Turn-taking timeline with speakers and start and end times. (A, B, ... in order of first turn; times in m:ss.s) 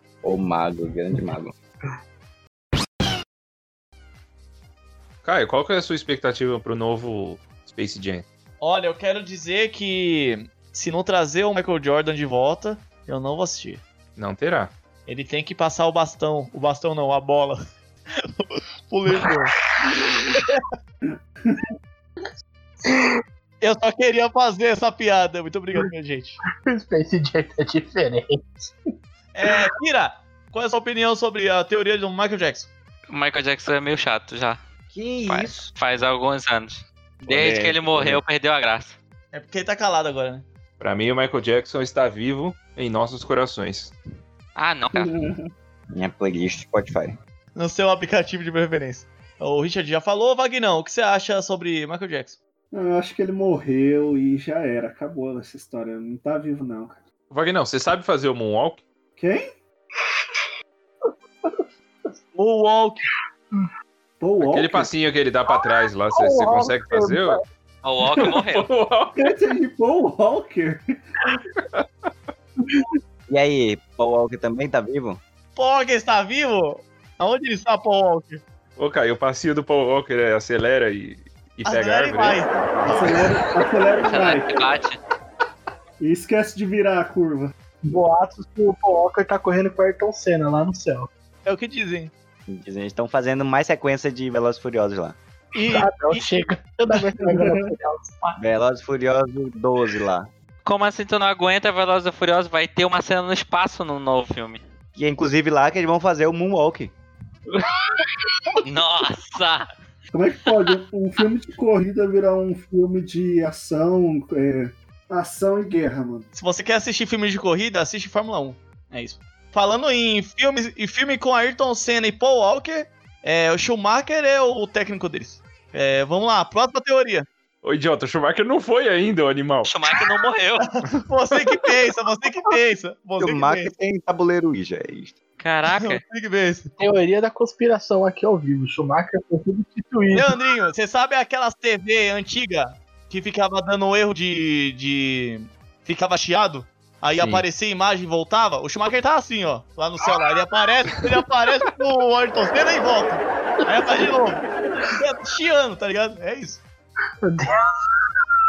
0:00.2-0:01.5 A
0:05.2-0:08.2 B
0:08.6-0:13.8 C
0:14.2-0:14.7 B
0:15.1-0:17.6 C
0:18.2-0:19.5 C
0:19.8-0:20.4 D
0:20.3-0:20.6 C
0:23.6-0:26.4 C
0:26.6-0:28.7 D
0:29.3-0:32.7 C
0:33.1-0:34.6 E
0:34.9-0:35.7 A
0:35.2-0:39.0 E
0:37.2-0:38.2 A
0:39.3-0:40.4 C
0:40.8-0:43.9 B
0:44.6-0:45.2 E
0:44.9-0:45.5 F
0:45.9-0:47.2 A
0:47.5-0:52.4 C
0:52.7-0:57.0 F
0:57.3-0:58.8 B
0:59.2-0:59.5 F
1:02.3-1:03.0 C
1:04.2-1:04.9 F
1:04.4-1:07.4 B
1:05.6-1:07.4 D
1:07.8-1:08.7 E
1:08.2-1:09.3 B
1:09.2-1:10.8 F
1:11.7-1:12.1 B
1:13.3-1:15.2 A
1:15.6-1:18.4 C
1:18.8-1:22.4 B
1:21.6-1:23.1 C
1:22.8-1:24.7 F
1:24.0-1:25.0 E
1:26.0-1:27.5 F
1:27.8-1:31.1 D
1:31.4-1:32.1 C
1:32.5-1:35.2 A
1:35.5-1:36.3 C
1:35.6-1:38.4 D
1:37.2-1:37.7 F
1:38.4-1:40.3 A
1:40.6-1:44.6 E
1:45.0-1:46.9 A
1:48.6-1:49.6 E
1:50.1-1:56.3 F
1:56.3-2:07.3 C
2:07.6-2:09.7 B
2:09.6-2:10.7 E
2:10.6-2:13.7 C
2:13.2-2:15.2 A
2:15.4-2:16.0 E
2:15.7-2:16.8 C
2:16.8-2:20.4 D
2:20.1-2:36.6 C
2:27.2-2:27.4 B
2:37.2-2:37.7 D